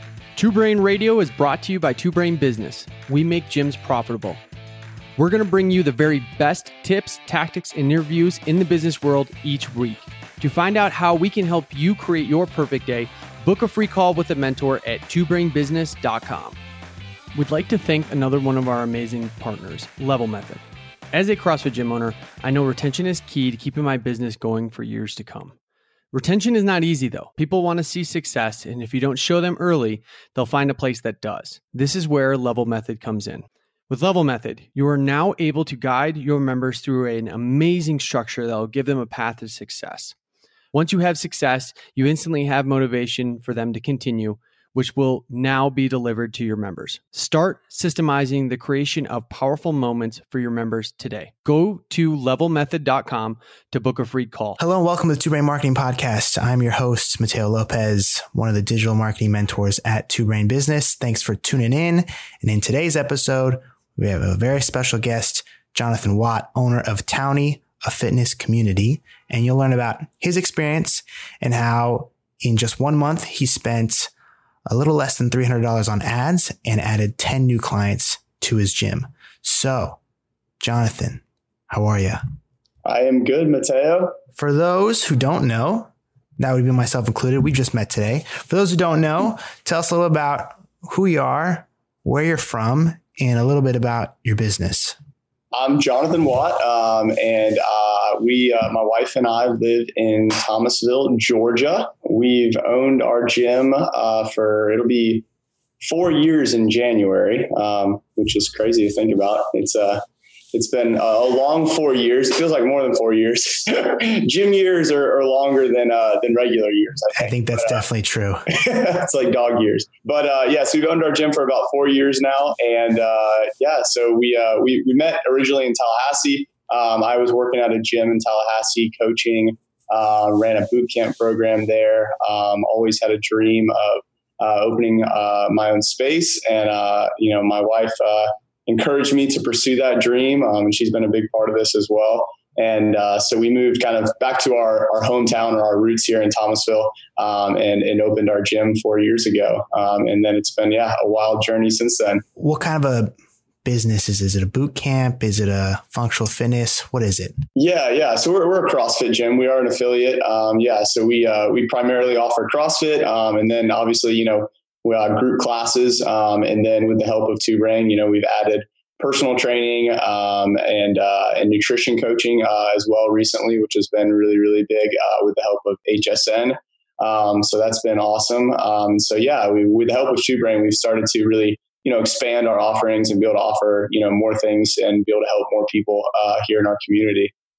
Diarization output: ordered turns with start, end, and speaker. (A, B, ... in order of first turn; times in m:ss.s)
0:00.4-0:04.4 A
0:05.2-0:16.6 A
0:17.3-0:25.5 A
0:26.1-0:40.1 A
0:40.7-0:54.6 A
0:54.6-1:14.1 B
1:14.7-1:20.0 B
1:20.6-1:22.2 B
1:22.8-1:24.2 C
1:24.4-1:35.0 B
1:35.5-1:45.2 C
1:45.8-1:57.8 C
1:57.2-1:58.4 B
1:58.5-2:32.2 C
2:32.4-2:33.1 B
2:33.6-2:37.4 B
2:37.6-3:07.3 C